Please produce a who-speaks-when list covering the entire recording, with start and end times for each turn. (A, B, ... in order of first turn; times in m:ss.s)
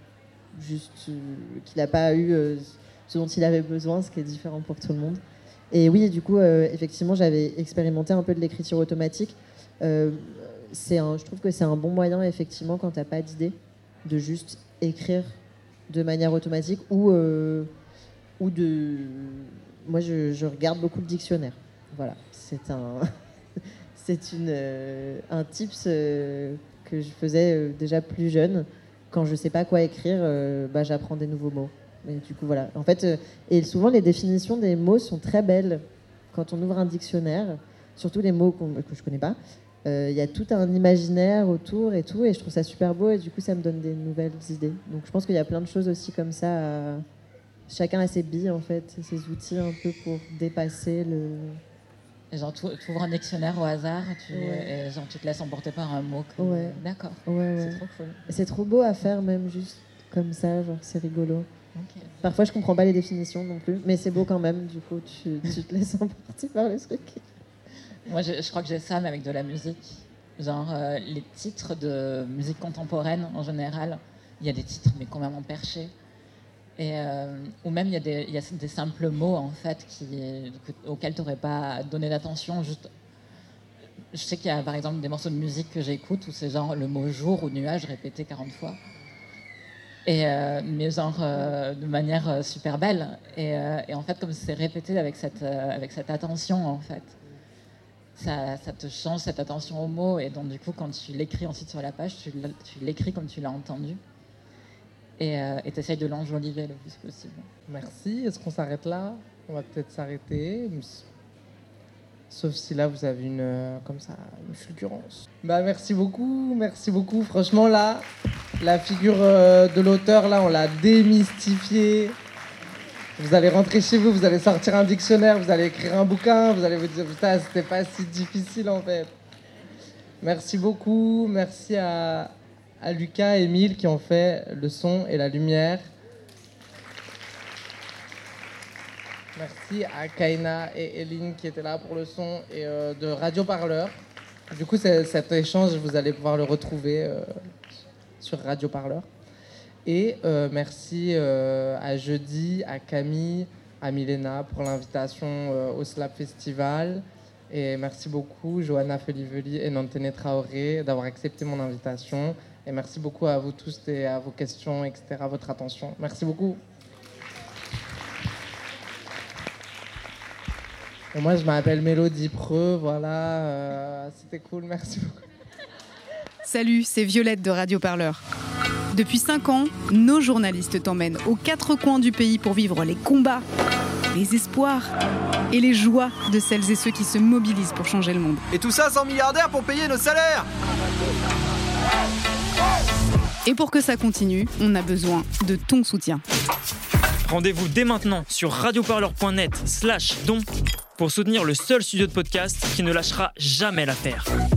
0:00.5-0:15.4 A
0:15.9-0:17.7 A
0:18.4-0:47.0 A
0:47.7-0:51.6 A
0:52.3-0:58.2 B
0:54.3-0:54.7 A
0:56.4-1:01.5 A
1:01.7-1:02.1 B
1:02.2-1:07.2 A
1:08.0-1:15.9 B
1:16.8-1:22.9 B
1:24.1-1:28.8 B
1:30.0-1:37.2 B
1:38.1-1:44.0 B
1:45.2-1:47.5 B
1:47.7-1:51.0 C
1:52.3-1:58.1 C
1:58.6-2:02.2 C
2:03.2-2:09.1 C
2:10.2-2:15.8 C
2:19.4-2:24.0 C
2:24.5-2:27.4 C
2:28.2-2:29.1 C
2:29.8-2:46.6 C
2:51.1-2:55.2 C
2:56.4-2:58.2 D
2:58.9-3:03.4 D
3:04.1-3:04.9 D
3:05.5-3:08.4 D
3:08.5-3:10.5 E
3:13.4-3:16.2 D
3:17.2-3:20.4 F
3:21.0-3:24.3 F